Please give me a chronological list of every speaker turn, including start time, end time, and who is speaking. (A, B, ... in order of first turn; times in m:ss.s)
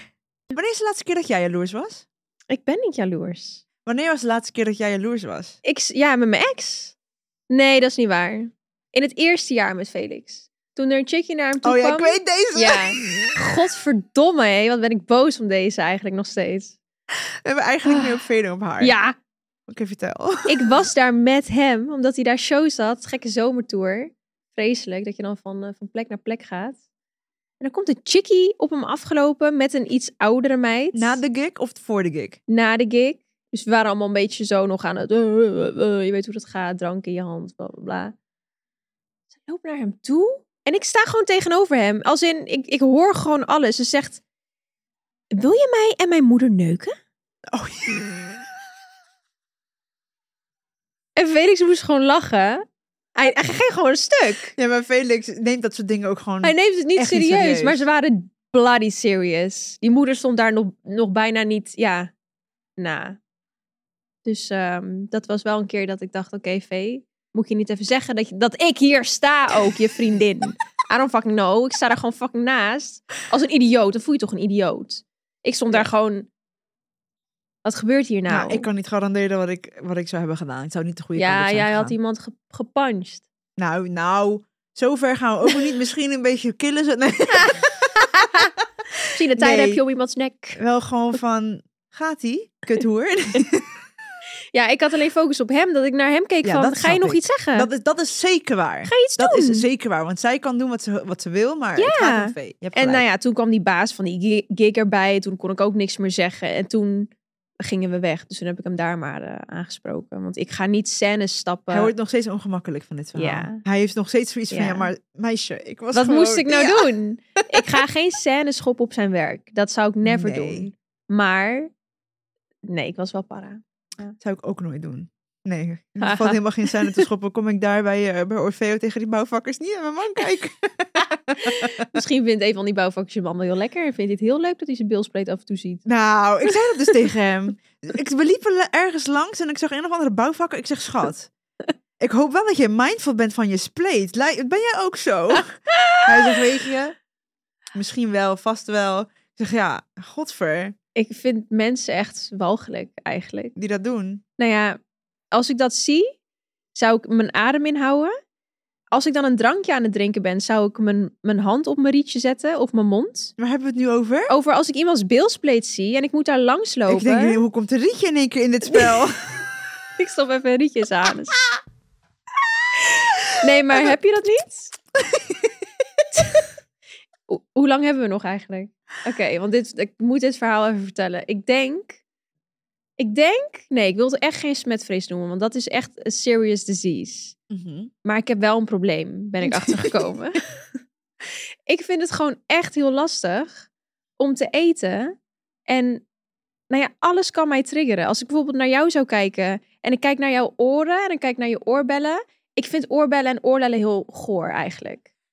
0:00.5-0:02.1 A
0:02.5-0:03.6 B
0:03.8-0:05.6 A
0:05.6-0:07.0 B
0:07.5-0:16.8 B
0:11.6-0:13.4 A
0:17.2-0:18.9 A
0:17.8-0:18.1 B
0:18.8-0:19.2 B
0:19.7-0:20.7 A
0:20.5-0:26.8 B
0:27.6-0:31.2 B
0:30.9-0:32.4 A
0:32.5-0:38.2 B
0:39.4-0:44.2 B
0:45.3-0:47.0 B
0:47.5-0:48.4 A
0:51.2-0:52.6 B
0:53.2-0:54.5 B
0:54.6-0:57.8 A
0:56.4-1:02.1 B
1:02.8-1:03.2 B
1:04.2-1:16.3 B
1:17.6-1:18.7 B
1:18.3-1:22.0 A
1:21.2-1:23.2 B
1:23.6-1:28.2 A
1:27.3-1:28.5 B
1:29.0-1:29.8 A
1:29.2-1:30.6 B
1:30.6-1:33.7 A
1:34.5-1:37.7 B
1:36.4-1:43.0 A
1:38.9-1:39.7 B
1:41.8-1:51.9 B
1:51.7-1:56.9 A
1:53.2-1:53.6 B
1:54.5-1:54.9 B
1:55.9-2:01.7 B
1:57.5-1:57.8 A
2:00.0-2:00.7 A
2:02.7-2:04.2 B
2:04.2-2:11.9 A
2:06.0-2:07.1 B
2:11.4-2:15.8 B
2:15.9-2:21.3 A
2:16.5-2:16.9 B
2:22.0-2:27.0 A
2:25.7-2:26.4 B
2:27.7-2:30.8 A
2:31.0-2:33.6 B
2:33.6-2:34.2 A
2:34.4-2:34.8 B
2:35.3-2:36.2 B
2:36.8-2:38.1 B
2:38.9-2:43.3 B
2:43.4-2:44.3 A
2:44.3-2:47.4 B
2:46.9-2:49.4 A
2:48.6-2:49.0 B
2:50.0-2:51.4 B
2:53.2-2:53.9 A
2:53.4-2:54.7 B
2:55.0-2:55.5 A
2:56.1-2:56.4 B
2:57.3-3:02.0 B
3:03.0-3:07.4 B
3:07.5-3:07.9 A
3:08.0-3:10.5 B
3:09.4-3:10.1 A
3:11.7-3:13.7 B
3:14.2-3:15.1 B
3:15.7-3:16.0 B
3:16.7-3:25.1 B